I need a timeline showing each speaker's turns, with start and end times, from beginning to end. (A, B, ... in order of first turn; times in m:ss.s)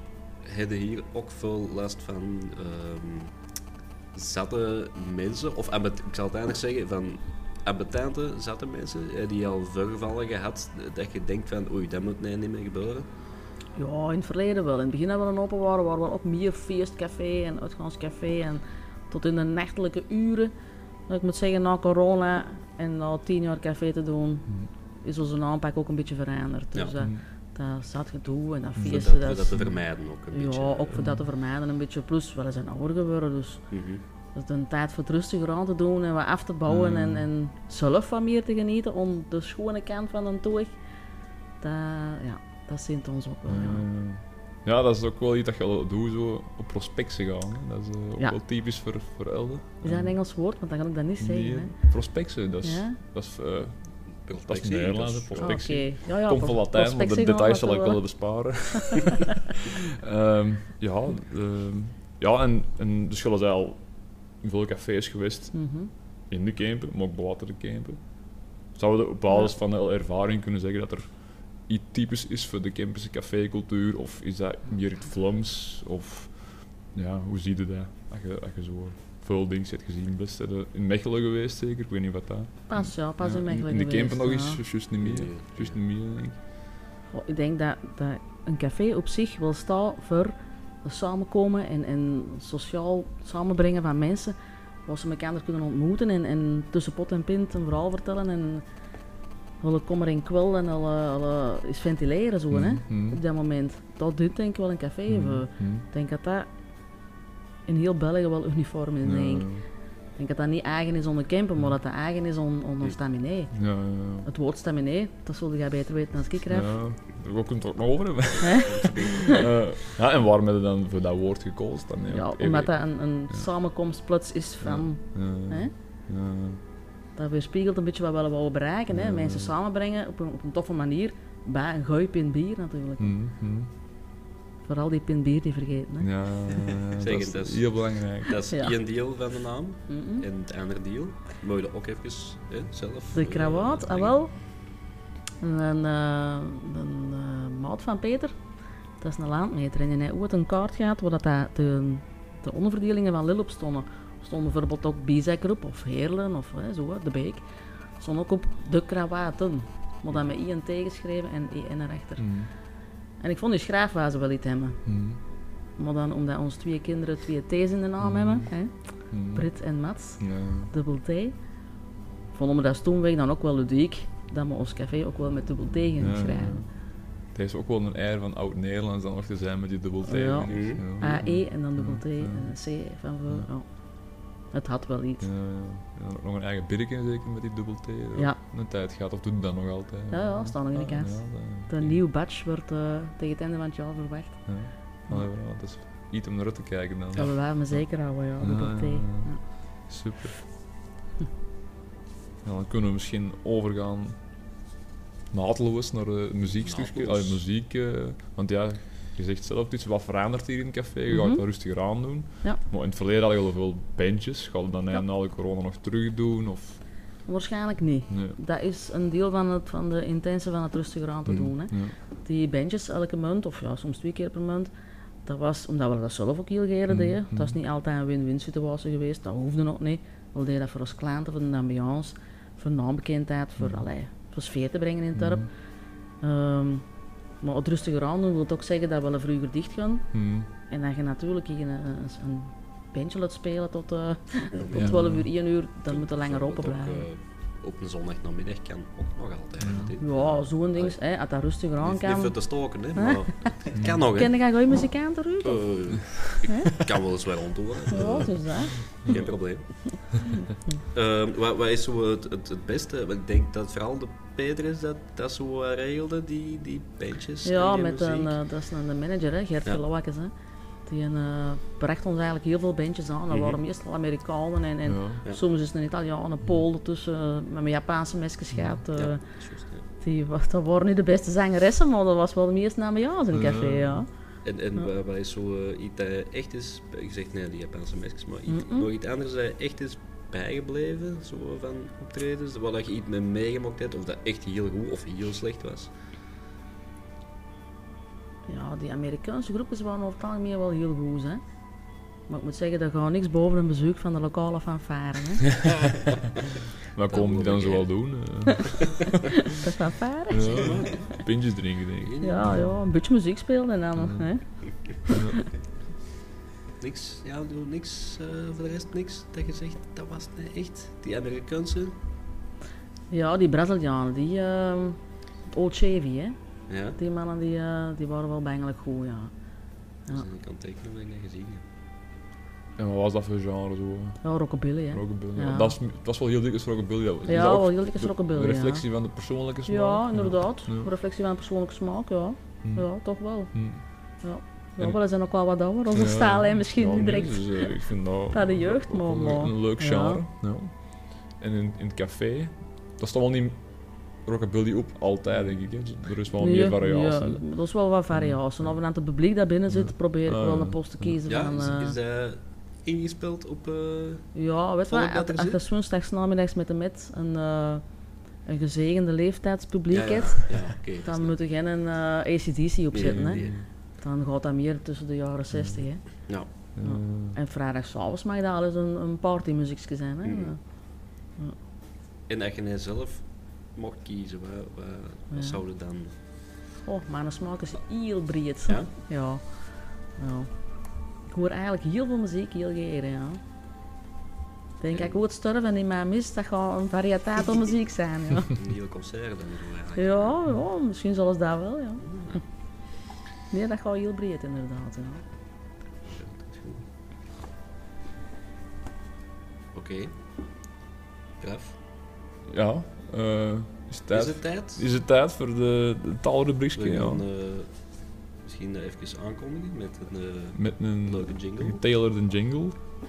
0:00.4-0:03.3 A
0:04.1-0:13.1 A
0:13.8-0:20.5 B
0:21.1-0:24.5 B
0:25.0-0:29.7 B
0:27.0-0:27.2 C
0:28.8-0:31.0 A
0:30.3-0:33.6 B
0:30.9-0:31.2 C
0:33.7-0:34.0 A
0:34.3-0:40.7 B
0:36.7-0:37.3 C
0:41.6-0:43.8 B
0:43.4-0:50.1 C
0:49.8-0:51.8 B
0:51.2-1:03.8 C
0:52.6-0:53.0 B
0:54.2-0:55.6 A
0:55.4-0:58.0 B
0:58.9-0:59.2 B
1:04.4-1:05.6 C
1:05.5-1:05.9 B
1:06.3-1:08.0 C
1:08.7-1:26.4 C
1:22.7-1:24.6 B
1:25.0-1:25.8 A
1:27.1-1:34.3 B
1:34.8-1:38.6 B
1:39.6-1:46.5 B
1:42.5-1:43.2 C
1:45.1-1:45.8 C
1:47.6-1:49.6 B
1:49.0-1:49.6 C
1:50.2-1:53.6 B
1:53.5-1:54.3 C
1:54.2-1:56.7 B
1:56.5-2:02.7 C
1:58.4-1:59.4 B
1:58.6-1:59.4 A
2:02.1-2:05.7 B
2:04.6-2:06.6 C
2:07.2-2:13.1 B
2:08.9-2:09.5 C
2:13.0-2:13.7 C
2:14.6-2:16.1 B
2:16.0-2:18.4 C
2:17.0-2:24.2 A
2:18.5-2:18.8 B
2:19.9-2:20.2 B
2:23.1-2:24.3 B
2:25.4-2:28.3 B
2:29.0-2:37.4 B
2:38.0-2:42.3 B
2:42.2-2:42.5 C
2:43.2-2:44.8 B
2:44.8-2:45.2 C
2:45.8-2:51.4 B
2:48.0-2:48.5 C
2:49.1-2:49.5 C
2:50.2-2:50.7 C
2:52.3-2:56.6 B
2:56.0-2:56.7 C
2:57.3-3:02.5 C
3:00.0-3:03.7 B
3:00.5-3:00.8 A
3:04.5-3:05.3 B
3:05.2-3:12.0 C
3:10.1-3:15.3 B
3:14.4-3:17.8 C
3:17.2-3:19.4 B
3:18.4-3:20.4 C
3:22.4-3:24.2 C
3:25.3-3:36.8 C
3:26.6-3:27.4 A
3:31.1-3:31.4 B
3:37.2-3:44.7 B
3:38.1-3:38.4 C
3:41.2-3:41.9 C
3:45.2-3:55.5 B
3:46.9-3:47.6 C
3:53.6-3:53.8 C
3:55.2-3:55.5 C
3:56.2-3:56.8 B
3:57.4-4:00.2 B
4:00.1-4:00.5 C
4:00.7-4:07.0 B
4:04.5-4:05.0 A
4:04.7-4:05.3 C
4:05.9-4:11.0 A
4:09.6-4:09.9 C
4:10.0-4:13.2 B
4:11.8-4:14.3 A
4:13.7-4:14.0 C
4:14.0-4:15.8 B
4:15.4-4:19.7 A
4:16.4-4:16.8 B
4:17.9-4:18.9 B
4:20.9-4:28.4 A
4:27.4-4:30.3 B
4:30.8-4:39.2 B
4:33.3-4:33.6 A
4:34.8-4:35.2 C
4:38.9-4:39.8 A
4:40.0-4:44.1 B
4:43.3-4:44.0 C
4:44.4-4:55.9 A
4:48.5-4:48.9 B
4:58.5-5:01.4 B
5:02.3-5:05.6 B
5:06.9-5:09.0 C
5:07.1-5:07.9 A
5:09.5-5:10.8 B
5:10.3-5:12.8 C
5:10.4-5:11.2 A
5:12.0-5:12.6 A
5:12.2-5:15.2 B
5:14.0-5:14.3 C
5:15.1-5:15.4 C
5:16.8-5:22.0 A
5:23.1-5:26.4 B
5:26.7-5:27.0 A
5:27.0-5:29.3 B
5:30.1-5:31.6 A
5:32.8-5:34.2 C
5:34.2-5:35.8 B
5:34.9-5:40.9 C
5:37.3-5:38.8 B
5:39.7-5:43.6 B
5:43.5-5:43.8 C
5:44.2-5:50.2 B
5:45.9-5:57.4 C
5:56.3-6:02.0 B
5:58.1-5:58.8 C
5:59.7-6:01.1 C
6:01.2-6:04.3 A
6:04.3-6:07.8 B
6:04.9-6:05.6 A
6:08.4-6:13.4 B
6:09.9-6:11.3 A
6:12.9-6:13.6 A
6:13.0-6:13.7 C
6:14.0-6:20.6 B
6:15.5-6:15.8 C
6:16.7-6:17.4 C
6:20.2-6:20.5 A
6:22.3-6:26.1 A
6:25.3-6:25.6 B
6:26.8-6:29.6 B
6:30.1-6:30.5 B
6:31.3-6:33.4 B
6:34.8-6:38.6 B
6:34.9-6:35.2 A
6:38.5-6:40.4 A
6:40.0-6:42.2 B
6:42.0-6:42.4 A
6:43.5-6:45.2 B
6:46.0-6:46.8 A
6:49.7-6:50.1 A
6:51.4-6:51.8 A
6:52.5-6:57.2 C
6:54.1-6:54.8 A
6:56.8-6:57.7 A
6:58.4-7:01.8 A
7:00.5-7:02.8 C